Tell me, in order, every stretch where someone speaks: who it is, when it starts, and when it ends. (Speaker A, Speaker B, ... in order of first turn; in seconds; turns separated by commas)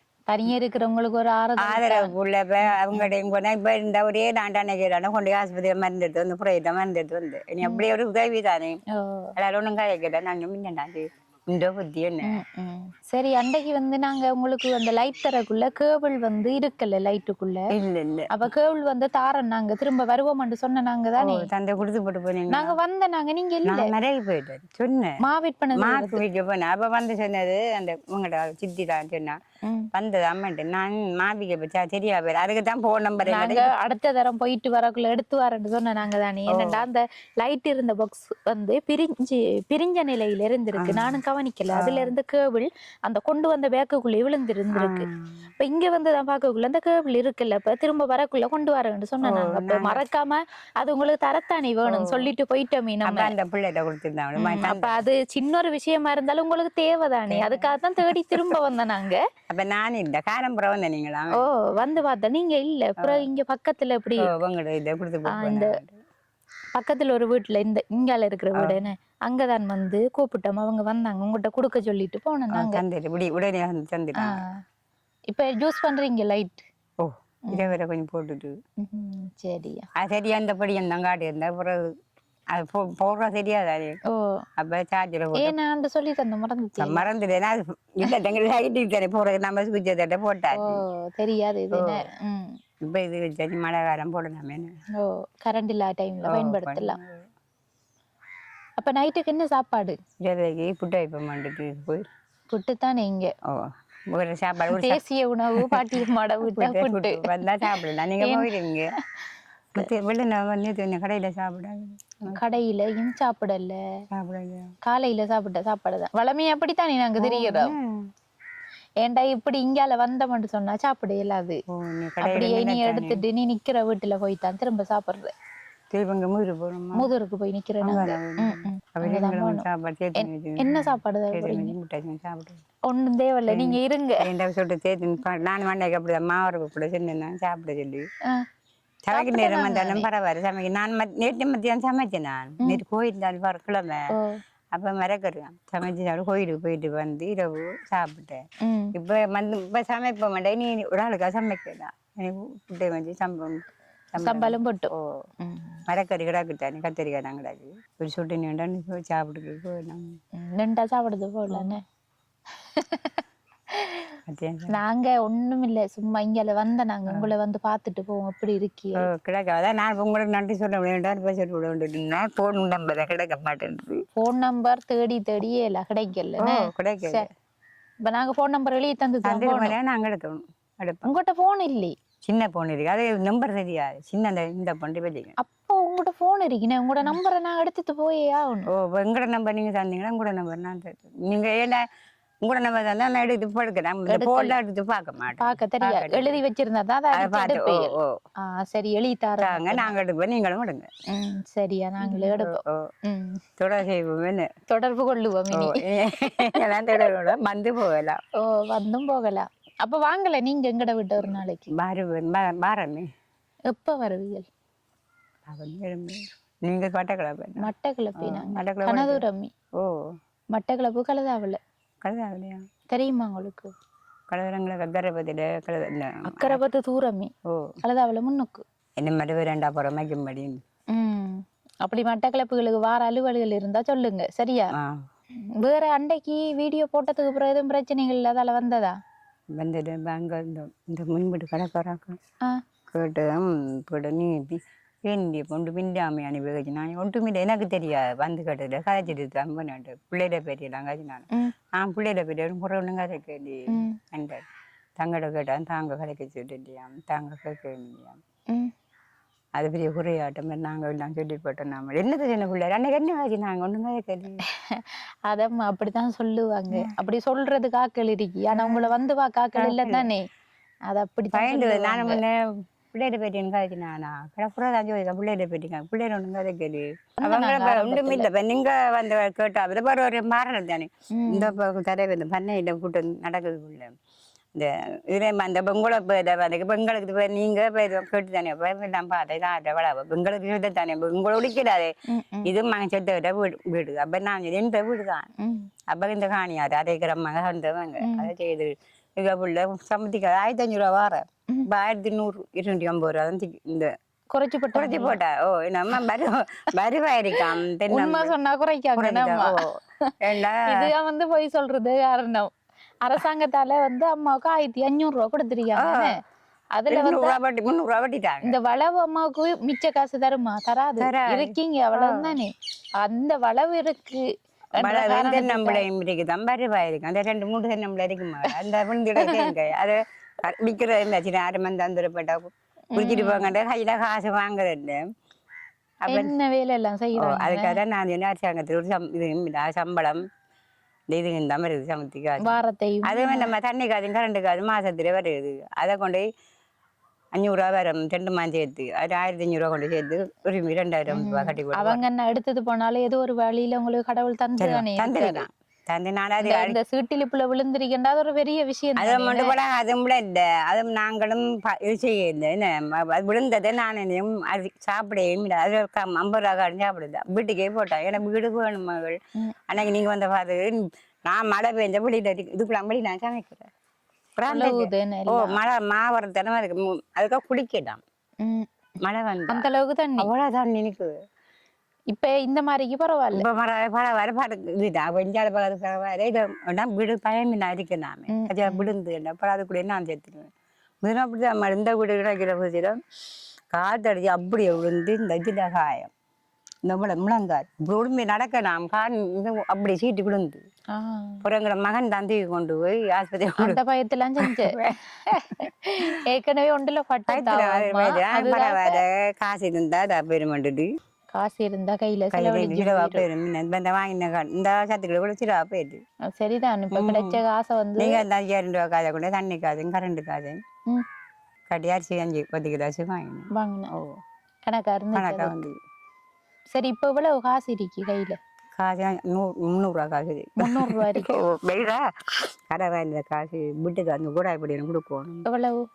Speaker A: 0.3-2.1, Speaker B: 1.6-8.8, Speaker A: 2.6-3.1, Speaker A: 8.9-9.3, Speaker B: 9.3-12.4, Speaker A: 12.2-17.6, Speaker B: 17.7-18.3, Speaker A: 18.3-21.5, Speaker B: 21.2-22.7, Speaker A: 22.5-23.9, Speaker B: 23.6-25.2, Speaker A: 25.2-26.2, Speaker B: 25.8-29.4, Speaker A: 29.6-29.9, Speaker B: 29.9-33.7, Speaker A: 33.2-45.1, Speaker B: 36.5-36.8, Speaker B: 40.8-41.1, Speaker B: 41.7-42.1, Speaker B: 44.7-45.4, Speaker A: 45.6-53.3, Speaker B: 49.2-50.0, Speaker B: 51.9-52.3, Speaker B: 53.0-55.0, Speaker A: 54.4-59.2, Speaker B: 57.3-58.6, Speaker B: 59.5-61.5, Speaker A: 61.4-64.3, Speaker B: 63.0-63.2, Speaker B: 64.2-66.0, Speaker A: 65.3-65.8, Speaker A: 66.7-72.8, Speaker B: 72.5-74.4, Speaker A: 74.2-74.5, Speaker A: 75.3-76.7, Speaker B: 77.0-78.6, Speaker A: 77.5-77.7, Speaker A: 78.8-79.9, Speaker B: 80.0-81.9, Speaker B: 82.5-84.0, Speaker A: 84.1-84.4, Speaker B: 84.6-85.5, Speaker A: 85.4-87.0, Speaker B: 86.8-90.8, Speaker A: 90.5-92.5, Speaker B: 91.7-92.0, Speaker B: 92.8-94.7, Speaker A: 95.0-97.0, Speaker B: 96.3-97.2, Speaker A: 98.8-100.0, Speaker B: 100.2-102.0, Speaker A: 102.5-103.3, Speaker B: 103.4-105.0, Speaker A: 104.7-108.5, Speaker B: 105.5-108.9, Speaker B: 109.7-112.4, Speaker A: 112.2-113.8, Speaker B: 114.1-114.7, Speaker A: 114.8-117.7, Speaker B: 117.2-118.1, Speaker A: 119.0-121.6, Speaker B: 121.7-123.2, Speaker A: 122.2-125.3, Speaker B: 125.9-127.1, Speaker A: 126.9-129.6, Speaker B: 127.8-132.6, Speaker A: 130.2-131.7, Speaker A: 132.8-134.2, Speaker B: 133.5-138.1, Speaker B: 139.0-144.1, Speaker A: 139.1-140.1, Speaker A: 144.1-144.4, Speaker B: 144.7-148.4, Speaker A: 148.6-148.9, Speaker B: 148.9-155.1, Speaker A: 154.2-154.9, Speaker A: 155.4-155.8, Speaker B: 155.9-160.2, Speaker A: 160.4-161.8, Speaker B: 161.5-161.7, Speaker A: 162.7-163.2, Speaker A: 163.7-169.1, Speaker B: 164.3-164.8, Speaker B: 169.0-174.0, Speaker A: 174.2-177.3, Speaker B: 176.4-177.3, Speaker A: 178.0-179.8, Speaker B: 179.2-181.1, Speaker A: 181.0-181.9, Speaker B: 182.2-185.3, Speaker A: 185.4-188.7, Speaker B: 188.7-191.8, Speaker B: 192.4-196.4, Speaker A: 194.1-194.6, Speaker A: 195.3-197.9, Speaker B: 197.1-198.1, Speaker A: 198.4-199.9, Speaker B: 199.4-200.9, Speaker A: 201.1-203.4, Speaker B: 202.0-202.9, Speaker B: 203.6-204.5, Speaker A: 204.7-207.1, Speaker B: 205.5-208.2, Speaker A: 208.4-211.7, Speaker B: 211.3-213.1, Speaker A: 213.7-214.5, Speaker B: 215.4-217.7, Speaker A: 217.6-219.5, Speaker B: 218.2-219.2, Speaker B: 219.8-220.1, Speaker A: 220.5-221.6, Speaker B: 222.0-222.6, Speaker A: 222.9-223.7, Speaker B: 224.3-226.6, Speaker A: 226.2-228.6, Speaker B: 227.4-227.8, Speaker B: 229.0-230.6, Speaker A: 230.9-234.7, Speaker B: 234.7-235.0, Speaker A: 235.5-238.9, Speaker B: 239.5-242.2, Speaker B: 242.9-254.4, Speaker A: 253.7-254.0, Speaker B: 255.0-258.2, Speaker B: 259.6-264.4, Speaker A: 264.5-270.2, Speaker B: 268.5-268.9, Speaker B: 269.6-270.1, Speaker A: 270.9-272.2, Speaker B: 271.3-272.4, Speaker B: 272.9-283.9, Speaker A: 277.2-278.3, Speaker A: 281.1-281.5, Speaker B: 284.5-291.9, Speaker A: 292.1-292.5, Speaker B: 292.4-295.3, Speaker A: 295.4-295.7, Speaker B: 295.9-303.9, Speaker A: 298.0-298.3, Speaker A: 304.3-305.2, Speaker B: 304.7-308.3, Speaker A: 307.9-310.1, Speaker B: 309.0-310.9, Speaker A: 310.6-312.5, Speaker A: 313.0-316.2, Speaker B: 315.7-316.1, Speaker A: 316.8-317.4, Speaker B: 316.9-318.6, Speaker A: 318.4-322.5, Speaker B: 321.0-322.4, Speaker A: 323.0-324.3, Speaker A: 324.8-325.8, Speaker B: 324.8-335.0, Speaker A: 329.2-329.5, Speaker A: 332.9-333.5, Speaker B: 336.0-336.3, Speaker A: 336.1-337.8, Speaker B: 337.2-340.2, Speaker B: 341.1-346.2, Speaker A: 342.4-343.5, Speaker B: 347.4-352.0, Speaker A: 351.1-355.4, Speaker B: 354.6-356.8, Speaker A: 356.4-359.5, Speaker B: 359.0-373.7, Speaker B: 374.4-378.0, Speaker A: 374.5-375.6, Speaker A: 378.4-378.7, Speaker B: 379.0-379.7, Speaker A: 379.5-380.3, Speaker B: 380.2-381.1, Speaker A: 382.1-383.4, Speaker B: 383.3-390.5, Speaker A: 388.3-388.9, Speaker B: 391.0-393.0, Speaker B: 393.7-396.1, Speaker B: 396.8-400.6, Speaker A: 400.9-401.4, Speaker B: 401.4-403.8, Speaker A: 403.6-404.8, Speaker B: 404.4-406.2, Speaker A: 405.6-409.0, Speaker B: 407.3-410.9, Speaker A: 411.3-413.3, Speaker B: 412.3-416.0, Speaker A: 416.3-418.2, Speaker B: 416.9-417.4, Speaker B: 418.0-420.6, Speaker B: 421.7-424.1, Speaker A: 423.5-423.9, Speaker A: 424.6-425.6, Speaker B: 425.1-425.8, Speaker A: 426.7-428.4, Speaker B: 428.7-435.4, Speaker A: 430.6-431.3, Speaker A: 435.4-435.8